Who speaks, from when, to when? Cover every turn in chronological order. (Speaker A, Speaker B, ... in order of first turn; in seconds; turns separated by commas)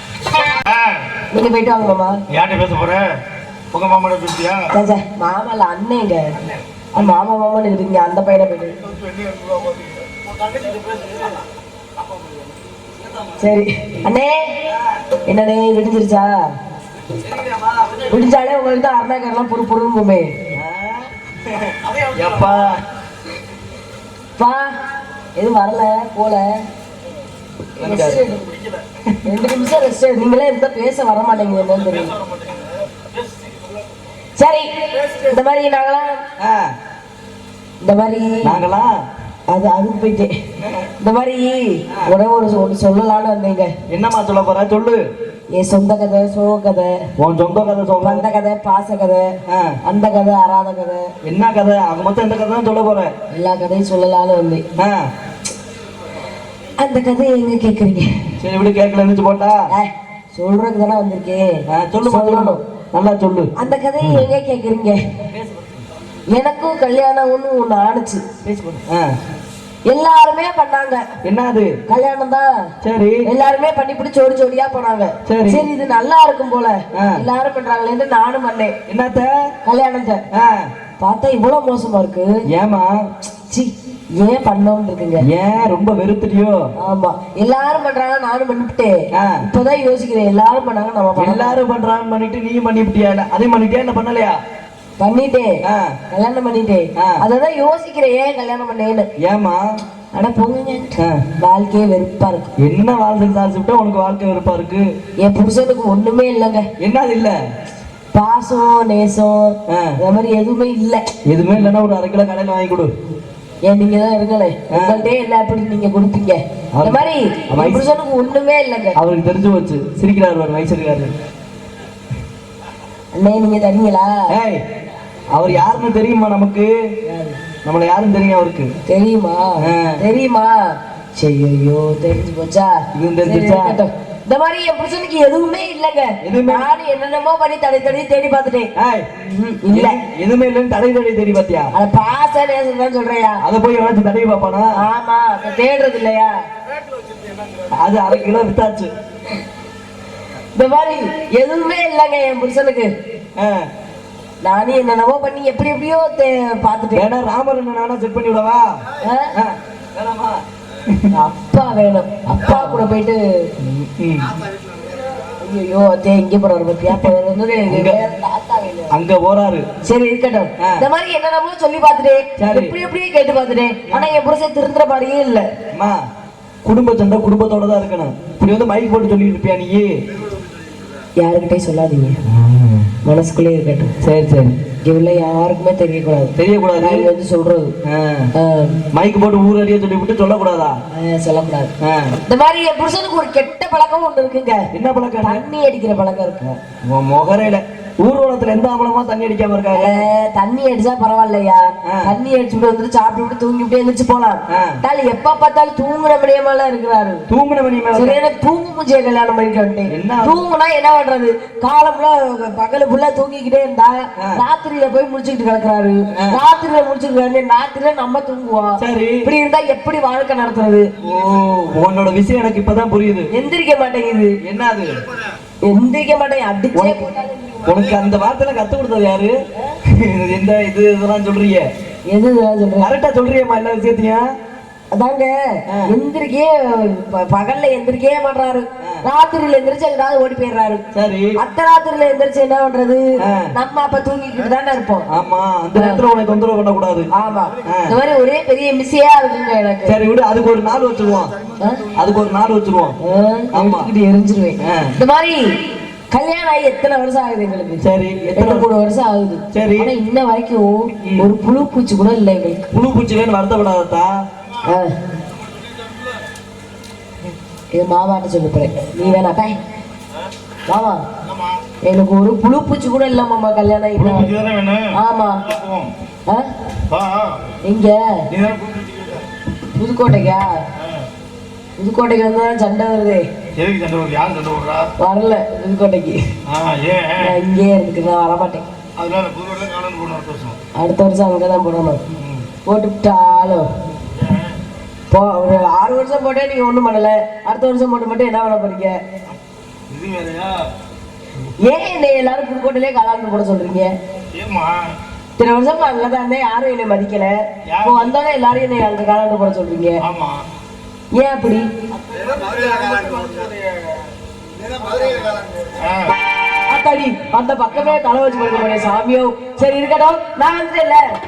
Speaker A: 0.6-1.0, Speaker B: 1.3-2.2, Speaker A: 2.3-3.2, Speaker A: 3.7-4.7, Speaker B: 4.7-6.3, Speaker B: 6.9-8.8, Speaker A: 9.1-9.9, Speaker A: 10.6-11.1, Speaker C: 13.0-13.3, Speaker B: 13.4-14.6, Speaker B: 15.3-16.3, Speaker C: 17.1-18.1, Speaker B: 18.1-20.3, Speaker C: 20.5-22.8, Speaker B: 24.4-24.7, Speaker B: 25.4-26.4, Speaker C: 27.8-28.3, Speaker B: 27.8-28.5, Speaker B: 29.2-32.2, Speaker B: 34.4-36.2, Speaker C: 36.4-36.7, Speaker B: 37.8-38.6, Speaker C: 38.4-39.0, Speaker B: 39.5-40.3, Speaker C: 40.6-40.9, Speaker B: 41.0-43.7, Speaker C: 43.9-45.0, Speaker B: 45.5-46.9, Speaker C: 47.2-48.2, Speaker B: 48.0-49.3, Speaker C: 49.5-49.8, Speaker B: 49.8-51.1, Speaker C: 51.2-53.1, Speaker B: 53.3-54.6, Speaker C: 54.8-55.1, Speaker B: 56.8-58.1, Speaker C: 58.4-59.6, Speaker B: 59.7-62.6, Speaker C: 61.7-63.5, Speaker B: 63.6-65.0, Speaker C: 64.0-64.3, Speaker C: 65.3-65.8, Speaker B: 66.3-68.2, Speaker C: 68.4-69.1, Speaker B: 69.9-71.0, Speaker C: 71.2-71.7, Speaker B: 71.9-72.5, Speaker C: 72.8-73.2, Speaker B: 73.2-78.8, Speaker C: 75.2-75.7, Speaker C: 76.9-77.2, Speaker C: 78.9-79.5, Speaker B: 79.6-80.2, Speaker C: 80.3-80.7, Speaker B: 81.0-82.4, Speaker C: 82.5-83.1, Speaker B: 83.5-85.2, Speaker C: 85.2-86.6, Speaker B: 86.8-91.6, Speaker C: 89.1-89.4, Speaker C: 91.2-94.4, Speaker B: 95.0-99.1, Speaker C: 95.6-96.0, Speaker C: 99.2-99.6, Speaker B: 100.1-102.5, Speaker C: 101.0-101.2, Speaker C: 102.6-104.9, Speaker B: 105.2-106.7, Speaker C: 106.8-107.4, Speaker B: 108.1-111.0, Speaker C: 109.7-110.0, Speaker C: 111.3-112.9, Speaker B: 113.6-119.0, Speaker C: 114.7-115.1, Speaker C: 116.8-117.8, Speaker C: 119.0-121.1, Speaker B: 123.1-124.2, Speaker C: 124.3-124.6, Speaker C: 125.3-126.7, Speaker B: 127.0-127.4, Speaker C: 127.6-128.7, Speaker B: 128.8-130.6, Speaker C: 129.6-130.0, Speaker B: 131.2-140.0, Speaker C: 132.9-133.8, Speaker C: 136.2-136.7, Speaker C: 138.8-139.1, Speaker C: 139.7-141.7, Speaker B: 141.7-143.4, Speaker C: 143.4-144.8, Speaker B: 144.7-146.3, Speaker C: 147.7-148.9, Speaker B: 150.5-152.9, Speaker C: 153.3-153.7, Speaker B: 154.4-157.1, Speaker C: 156.9-158.7, Speaker B: 159.0-159.3, Speaker C: 159.3-161.1, Speaker B: 161.1-163.5, Speaker C: 162.3-162.8, Speaker C: 163.6-164.4, Speaker B: 165.4-168.9, Speaker C: 166.9-167.1, Speaker C: 167.7-168.0, Speaker C: 168.9-169.7, Speaker B: 169.8-175.4, Speaker C: 170.6-170.8, Speaker C: 172.4-172.7, Speaker C: 175.7-176.0, Speaker C: 176.6-179.9, Speaker B: 181.2-182.2, Speaker C: 182.3-182.9, Speaker B: 183.0-183.9, Speaker C: 184.0-184.5, Speaker B: 184.8-187.7, Speaker C: 186.3-187.1, Speaker C: 187.8-188.3, Speaker B: 188.3-188.8, Speaker C: 188.9-190.8, Speaker B: 190.9-191.7, Speaker C: 191.8-192.2, Speaker B: 192.2-194.7, Speaker C: 194.7-195.4, Speaker B: 195.2-196.5, Speaker C: 196.8-200.1, Speaker B: 199.7-207.2, Speaker C: 201.8-202.1, Speaker C: 204.5-204.8, Speaker C: 207.3-208.2, Speaker B: 207.9-220.9, Speaker C: 209.9-210.4, Speaker C: 218.8-219.3, Speaker C: 221.0-223.3, Speaker B: 223.3-224.3, Speaker C: 224.4-225.0, Speaker B: 225.6-228.0, Speaker C: 226.7-227.0, Speaker C: 227.6-231.7, Speaker B: 232.1-232.9, Speaker C: 232.8-234.3, Speaker B: 234.9-235.3, Speaker B: 235.8-240.8, Speaker C: 240.9-241.3, Speaker B: 241.4-245.1, Speaker C: 243.2-243.5, Speaker C: 245.1-247.1, Speaker B: 245.7-246.0, Speaker B: 247.1-249.9, Speaker C: 247.7-247.9, Speaker C: 249.8-251.3, Speaker C: 251.9-252.9, Speaker B: 253.0-255.5, Speaker C: 253.5-253.9, Speaker C: 254.6-254.9, Speaker B: 256.1-257.8, Speaker C: 257.8-258.7, Speaker B: 258.4-262.7, Speaker C: 259.5-259.9, Speaker C: 262.7-264.2, Speaker B: 264.6-264.9, Speaker A: 265.6-266.0, Speaker B: 267.7-269.6, Speaker B: 270.7-271.0, Speaker A: 271.3-271.6, Speaker B: 271.8-274.3, Speaker A: 274.0-275.9, Speaker B: 274.9-275.4, Speaker A: 276.9-277.5, Speaker B: 277.6-278.2, Speaker A: 278.3-279.2, Speaker B: 279.7-280.5, Speaker A: 280.8-281.1, Speaker B: 281.8-283.2, Speaker A: 283.5-284.9, Speaker B: 285.0-286.1, Speaker A: 286.5-287.4, Speaker B: 287.2-288.7, Speaker A: 289.0-290.6, Speaker B: 290.7-292.0, Speaker A: 292.2-292.4, Speaker B: 292.6-293.7, Speaker A: 294.2-294.5, Speaker B: 295.1-298.9, Speaker A: 299.9-300.7, Speaker B: 301.6-303.9, Speaker A: 304.3-304.9, Speaker B: 305.4-310.0, Speaker A: 307.7-308.1, Speaker A: 310.0-310.4, Speaker B: 311.1-311.6, Speaker A: 312.0-313.9, Speaker A: 314.9-316.1, Speaker B: 316.7-321.0